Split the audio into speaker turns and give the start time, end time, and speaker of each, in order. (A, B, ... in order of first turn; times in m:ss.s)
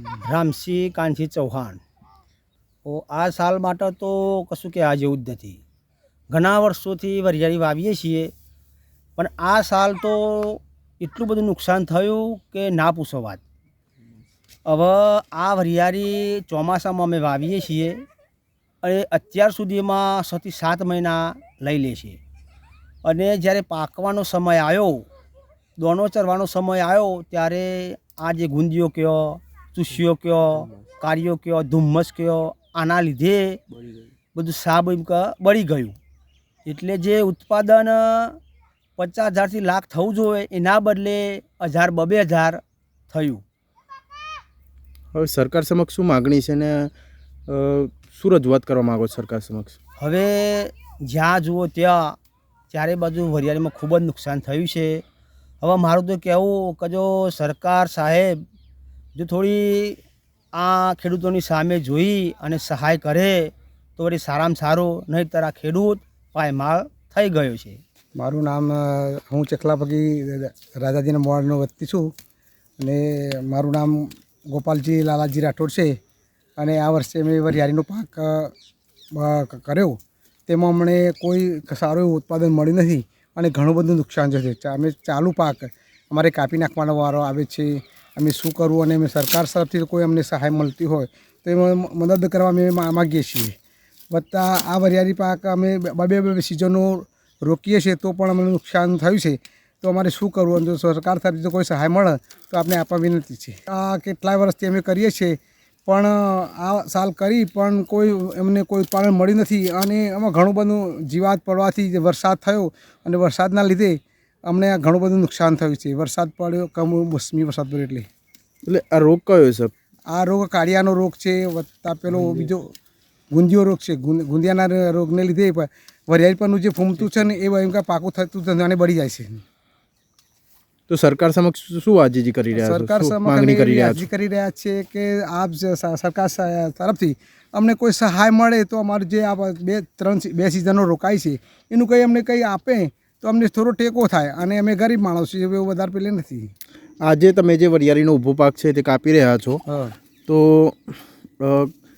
0:00.3-0:01.8 A
0:02.8-0:05.6 A
0:06.3-0:08.3 A
0:09.2-0:13.4 A
0:14.7-0:18.0 A
0:18.8-0:22.2 A
0:23.0-0:25.1 A
0:25.8-0:33.6 A
0:34.3-0:36.0 A
0:36.6-0:38.4 A
0:39.0-0:43.4 A
0:45.1-0:46.9 B
0:47.5-0:49.8 B
0:50.0-0:52.2 A
0:52.7-0:55.0 A
0:55.6-0:58.4 A
0:59.1-1:00.0 A
1:00.5-1:07.8 A
1:08.2-1:12.1 C
1:12.8-1:16.0 C
1:16.6-1:18.5 C
1:19.2-1:33.5 C
1:34.1-1:54.0 C
1:54.5-1:58.1 C
1:58.7-1:59.7 B
2:00.1-2:02.7 C
2:03.3-2:09.4 C
2:10.9-2:14.1 B
2:12.6-2:26.5 C
2:27.0-2:29.6 B
2:29.7-2:29.9 C
2:30.3-2:31.7 B